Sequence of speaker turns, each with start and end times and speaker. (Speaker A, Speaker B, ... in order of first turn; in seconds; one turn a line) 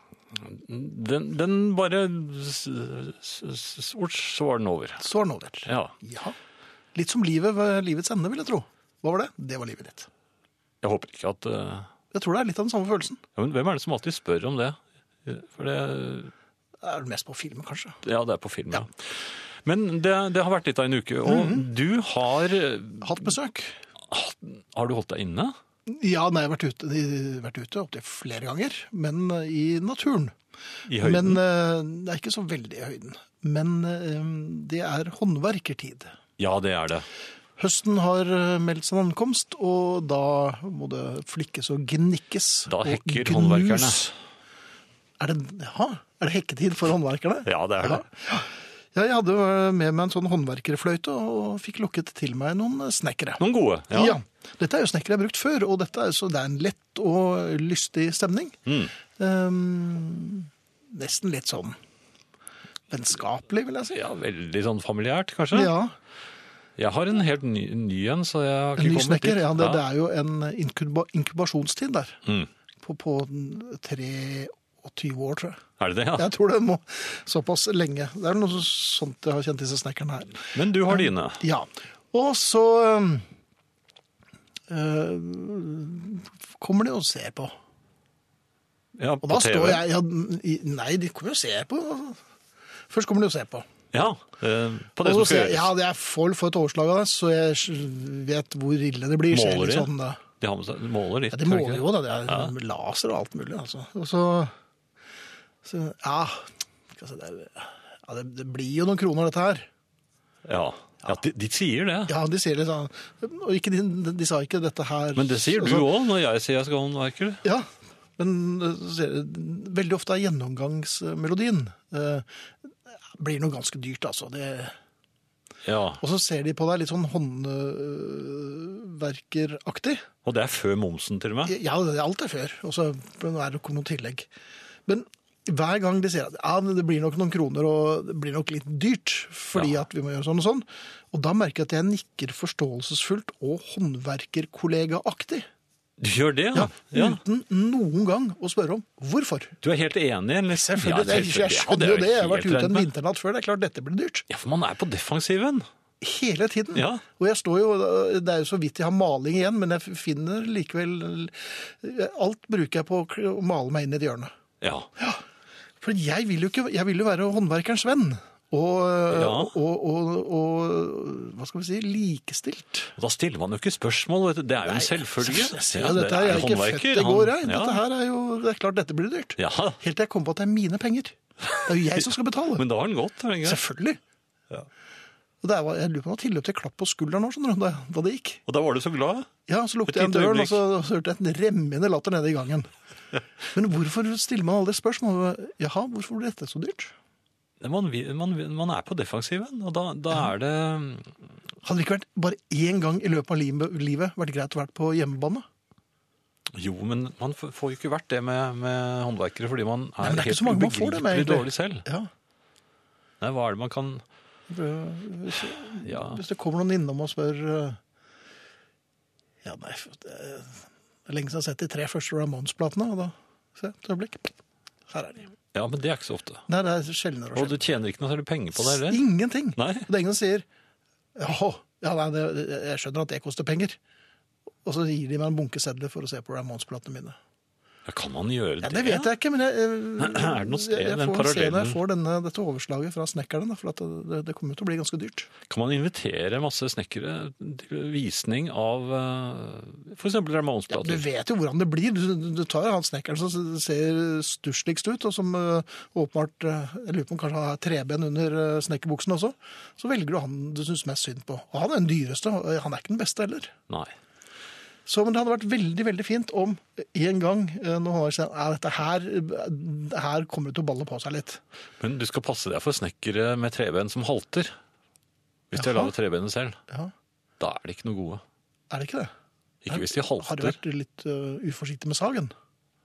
Speaker A: 0.3-5.0
Speaker B: 5.0-6.3
Speaker A: 5.7-5.9
Speaker B: 6.9-10.1
Speaker A: 10.8-11.9
Speaker B: 12.1-13.2
Speaker A: 13.3-16.3
Speaker B: 16.8-18.0
Speaker A: 18.0-23.3
Speaker B: 21.2-21.6
Speaker B: 23.0-23.8
Speaker A: 24.1-25.6
Speaker B: 25.9-30.3
Speaker A: 30.9-31.4
Speaker B: 31.0-36.1
Speaker A: 36.4-37.1
Speaker B: 37.6-44.1
Speaker A: 42.7-44.1
Speaker B: 45.2-58.6
Speaker A: 47.5-48.0
Speaker A: 53.4-54.2
Speaker A: 58.6-58.9
Speaker B: 59.1-61.8
Speaker B: 62.9-64.0
Speaker A: 63.9-65.7
Speaker B: 65.5-65.9
Speaker A: 66.8-69.8
Speaker B: 68.8-72.2
Speaker A: 72.2-72.5
Speaker B: 72.8-75.6
Speaker A: 75.8-76.3
Speaker B: 76.2-83.2
Speaker A: 80.5-81.4
Speaker B: 84.7-87.5
Speaker A: 89.0-89.8
Speaker B: 89.2-92.2
Speaker B: 92.9-93.7
Speaker A: 93.9-95.7
Speaker B: 95.0-100.2
Speaker A: 99.3-102.5
Speaker B: 101.3-104.5
Speaker B: 105.6-109.7
Speaker A: 110.4-112.1
Speaker B: 112.1-115.9
Speaker A: 115.2-117.4
Speaker B: 117.4-122.3
Speaker B: 122.9-124.7
Speaker A: 125.6-126.0
Speaker B: 126.0-130.0
Speaker A: 130.2-131.5
Speaker B: 131.4-134.3
Speaker B: 134.9-145.5
Speaker A: 139.5-139.8
Speaker A: 146.0-147.2
Speaker B: 146.5-149.5
Speaker A: 149.6-152.9
Speaker B: 150.5-154.2
Speaker A: 154.3-155.7
Speaker B: 156.0-164.3
Speaker A: 156.7-157.0
Speaker A: 164.6-164.9
Speaker B: 165.8-172.9
Speaker A: 169.1-169.5
Speaker A: 173.0-177.8
Speaker B: 174.6-182.6
Speaker A: 179.4-179.8
Speaker A: 182.6-183.6
Speaker B: 183.4-184.0
Speaker B: 185.4-188.4
Speaker A: 188.5-189.3
Speaker B: 189.5-192.7
Speaker A: 189.8-190.6
Speaker B: 193.5-196.9
Speaker A: 197.6-201.1
Speaker B: 201.6-205.4
Speaker A: 206.5-211.8
Speaker B: 210.0-212.1
Speaker A: 213.2-214.0
Speaker B: 214.5-217.8
Speaker A: 215.3-216.2
Speaker B: 219.4-224.3
Speaker B: 224.9-225.3
Speaker A: 225.5-226.4
Speaker B: 226.5-227.7
Speaker A: 227.3-229.0
Speaker B: 228.6-230.4
Speaker A: 229.6-229.9
Speaker B: 231.2-233.8
Speaker B: 234.6-237.2
Speaker A: 237.8-239.1
Speaker B: 238.6-245.3
Speaker A: 240.0-241.8
Speaker A: 245.5-251.0
Speaker B: 250.7-263.5
Speaker B: 264.9-271.4
Speaker A: 271.8-274.5
Speaker A: 275.5-276.6
Speaker B: 275.6-275.9
Speaker A: 277.4-278.2
Speaker B: 278.7-279.1
Speaker A: 279.6-280.6
Speaker B: 279.7-282.3